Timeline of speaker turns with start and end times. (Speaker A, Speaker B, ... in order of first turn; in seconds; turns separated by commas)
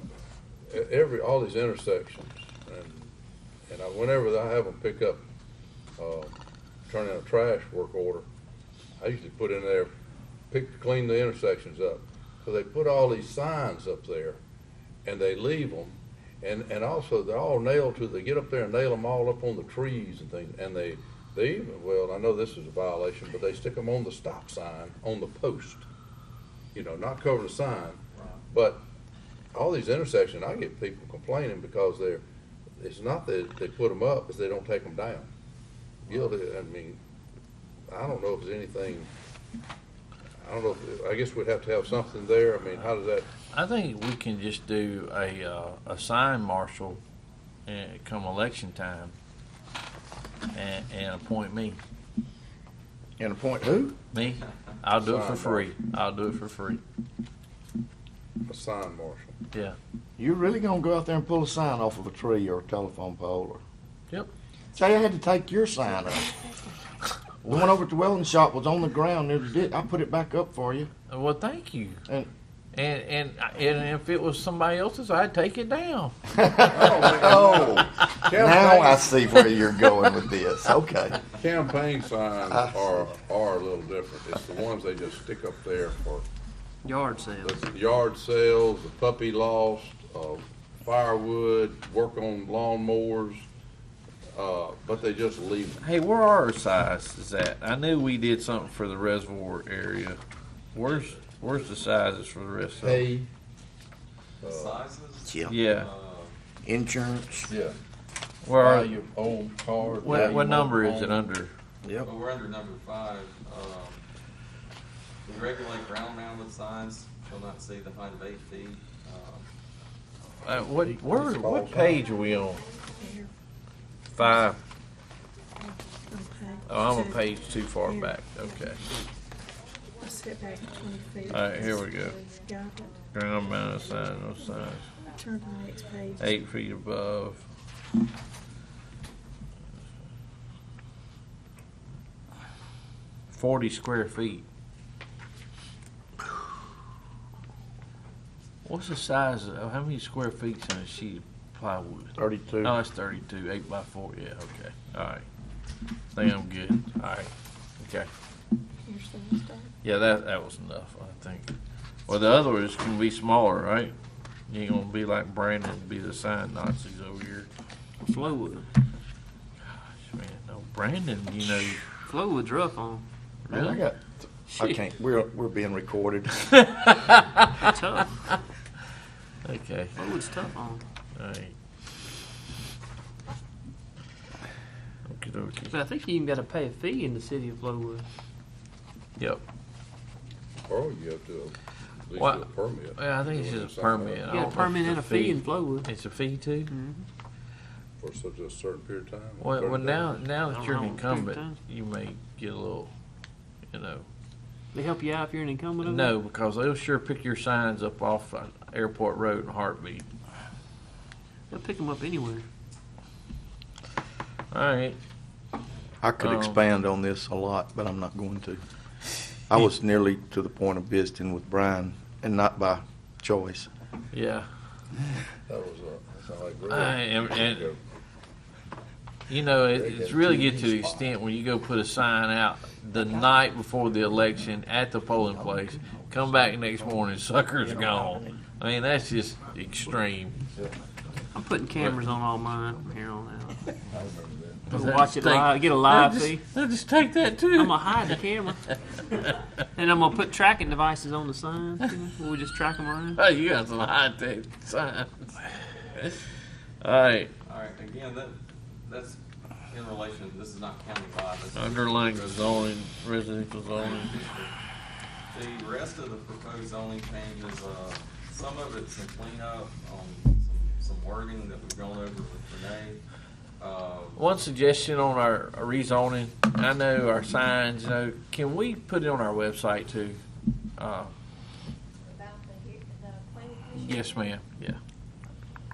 Speaker A: 0.7-3.1, Speaker A: 3.7-5.2, Speaker A: 6.0-6.3, Speaker A: 6.9-8.2, Speaker A: 9.0-9.9, Speaker A: 10.5-14.4, Speaker A: 15.0-25.9, Speaker A: 26.7-28.8, Speaker B: 28.1-28.4, Speaker A: 29.5-32.2, Speaker A: 32.8-35.3, Speaker A: 36.0-37.0, Speaker A: 37.9-39.1, Speaker A: 40.4-43.3, Speaker C: 43.5-47.0, Speaker C: 47.7-49.1, Speaker C: 50.5-51.8, Speaker D: 53.2-54.0, Speaker C: 54.1-56.8, Speaker A: 55.0-55.7, Speaker A: 58.5-59.4, Speaker D: 60.2-63.6, Speaker D: 64.7-66.3, Speaker E: 66.0-66.7, Speaker D: 67.4-70.9, Speaker C: 71.1-72.0, Speaker C: 72.7-76.2, Speaker D: 76.3-81.2, Speaker A: 76.7-79.2, Speaker A: 81.3-86.3, Speaker D: 82.5-82.8, Speaker F: 86.8-87.6, Speaker A: 87.4-93.5, Speaker A: 94.3-95.9, Speaker C: 95.8-100.2, Speaker C: 100.7-103.1, Speaker A: 102.8-103.3, Speaker B: 104.4-106.3, Speaker A: 104.4-104.8, Speaker D: 105.2-105.5, Speaker C: 105.5-105.9, Speaker D: 106.6-107.5, Speaker A: 107.5-107.8, Speaker C: 108.4-108.9, Speaker A: 108.5-111.2, Speaker C: 109.9-111.5, Speaker D: 111.8-112.1, Speaker B: 112.0-114.0, Speaker B: 115.2-119.5, Speaker C: 120.4-122.6, Speaker A: 120.5-122.0, Speaker G: 121.8-123.2, Speaker E: 123.0-123.3, Speaker C: 124.1-124.6, Speaker E: 125.6-128.7, Speaker G: 125.9-127.7, Speaker C: 126.7-128.8, Speaker E: 130.0-133.0, Speaker G: 130.3-136.4, Speaker C: 131.3-132.2, Speaker C: 133.1-134.9, Speaker E: 135.1-136.3, Speaker C: 136.2-137.5, Speaker C: 143.3-144.4, Speaker C: 148.6-155.2, Speaker D: 152.2-152.7, Speaker C: 156.1-158.1, Speaker E: 158.9-159.7, Speaker C: 159.8-161.5, Speaker C: 162.1-163.9, Speaker C: 164.5-167.5, Speaker F: 168.0-168.7, Speaker C: 169.7-171.8, Speaker F: 172.0-173.0, Speaker C: 173.5-173.8, Speaker D: 173.5-176.5, Speaker F: 174.5-174.8, Speaker C: 176.6-177.7, Speaker F: 177.6-178.2, Speaker C: 179.4-179.9, Speaker F: 179.9-180.8, Speaker C: 181.2-181.5, Speaker C: 185.1-185.8, Speaker F: 185.7-188.0, Speaker C: 189.2-189.4, Speaker A: 190.7-191.6, Speaker A: 192.1-194.7, Speaker C: 192.2-196.7, Speaker F: 194.3-195.9, Speaker F: 196.7-197.1, Speaker A: 198.0-200.2, Speaker C: 199.4-202.9, Speaker F: 200.5-201.6, Speaker C: 203.7-204.0, Speaker F: 204.7-206.1, Speaker C: 205.8-210.0, Speaker F: 211.5-212.4, Speaker C: 214.5-215.0, Speaker D: 216.0-218.6, Speaker C: 216.2-216.6, Speaker D: 219.5-223.7, Speaker C: 224.1-224.5, Speaker A: 225.5-227.8, Speaker C: 226.7-227.7, Speaker C: 229.3-240.4, Speaker A: 229.7-230.9, Speaker D: 235.5-236.5, Speaker D: 237.8-238.1, Speaker F: 241.3-243.7, Speaker C: 241.7-242.0, Speaker A: 243.9-244.8, Speaker C: 244.7-248.2, Speaker F: 244.7-246.4, Speaker F: 247.5-248.6, Speaker C: 249.0-249.6, Speaker F: 249.8-253.2, Speaker C: 253.2-256.2, Speaker C: 256.8-257.3, Speaker B: 257.4-259.2, Speaker B: 259.7-262.7, Speaker C: 261.5-264.2, Speaker B: 263.7-264.5, Speaker B: 265.3-273.0, Speaker B: 273.6-274.4, Speaker C: 274.1-280.2, Speaker C: 280.8-281.1, Speaker G: 282.0-284.4, Speaker C: 283.7-284.8